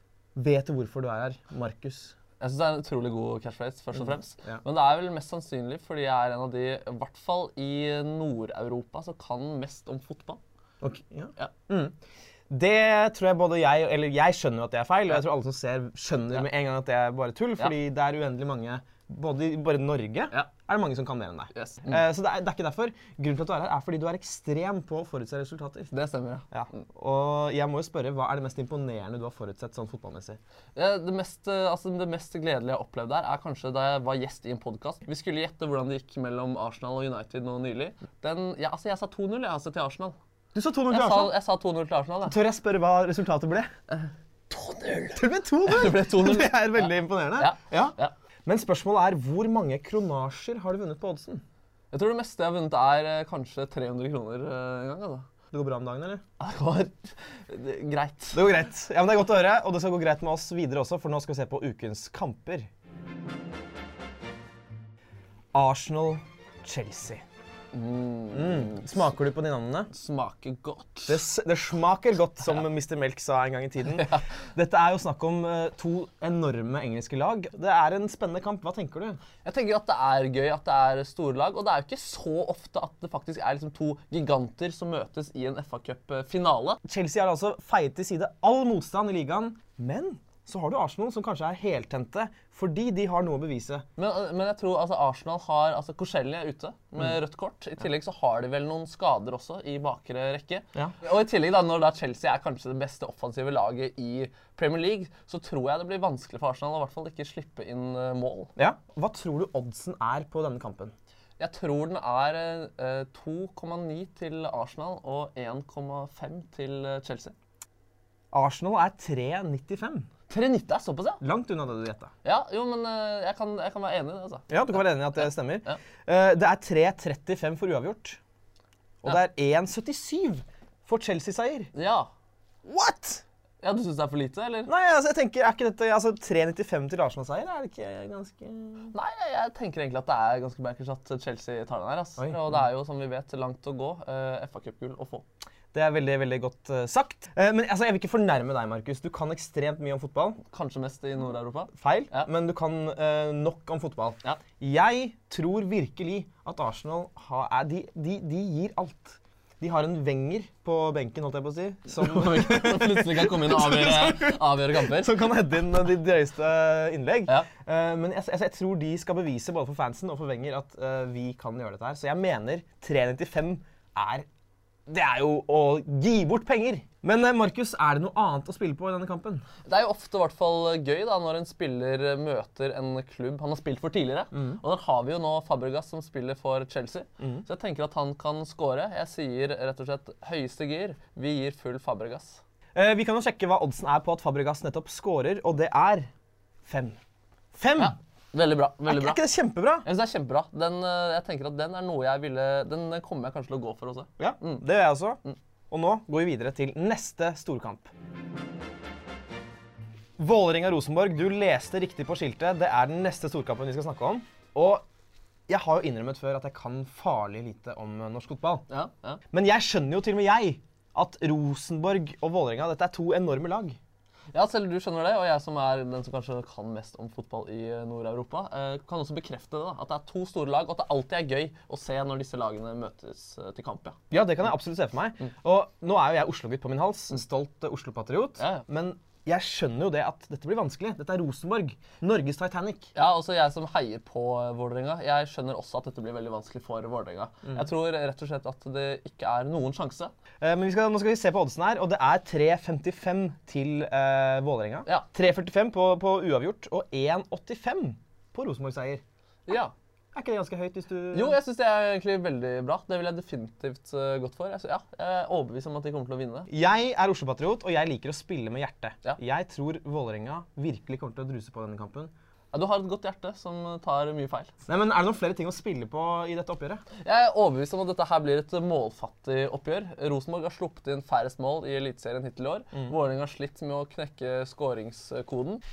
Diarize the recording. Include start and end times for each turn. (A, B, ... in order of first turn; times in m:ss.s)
0:00.3-0:02.1 A
0:02.4-0:10.4 B
0:10.8-0:11.9 A
0:12.5-0:25.9 A
0:21.5-0:22.0 B
0:25.9-0:26.5 B
0:26.5-0:30.4 A
0:30.7-0:40.2 B
0:40.5-0:41.3 A
0:40.9-0:42.4 B
0:42.2-0:43.7 A
0:43.9-0:48.1 B
0:45.1-0:51.4 A
0:51.9-0:55.3 B
0:55.5-0:56.2 A
0:56.4-0:58.4 B
0:58.3-1:02.7 A
1:05.5-1:07.2 A
1:07.7-1:09.0 B
1:08.3-1:09.9 A
1:09.9-1:11.2 B
1:11.1-1:19.2 A
1:19.4-1:26.8 B
1:26.8-1:33.8 A
1:34.0-1:48.5 B
1:48.6-1:50.9 A
1:51.4-1:57.3 B
1:58.3-2:00.1 A
2:00.3-2:01.2 B
2:01.2-2:02.1 A
2:02.2-2:05.8 B
2:04.5-2:08.2 A
2:09.0-2:11.7 A
2:11.7-2:12.1 B
2:12.6-2:13.2 A
2:13.6-2:14.7 B
2:14.7-2:18.9 A
2:18.9-2:25.2 B
2:22.2-2:22.5 A
2:25.7-2:30.4 A
2:30.5-2:32.3 B
2:31.7-2:54.2 A
2:41.9-2:45.2 B
2:54.9-2:59.4 A
2:59.6-3:12.4 B
3:04.3-3:04.6 A
3:07.2-3:07.4 A
3:12.7-3:16.1 A
3:16.6-3:17.0 A
3:17.5-3:17.9 A
3:17.8-3:19.2 B
3:18.8-3:19.8 A
3:19.8-3:24.6 B
3:24.2-3:25.2 A
3:25.7-3:27.9 A
3:30.2-3:34.8 A
3:35.5-3:38.6 A
3:38.7-3:39.2 B
3:39.3-3:43.8 A
3:44.3-3:54.0 B
3:54.1-4:02.9 A
3:58.4-3:58.6 B
4:02.9-4:10.1 B
4:10.4-4:19.0 A
4:19.5-4:19.7 B
4:20.1-4:21.4 A
4:21.1-4:26.5 B
4:26.5-4:32.1 A
4:32.5-4:34.5 B
4:34.6-4:36.8 A
4:37.0-4:45.6 B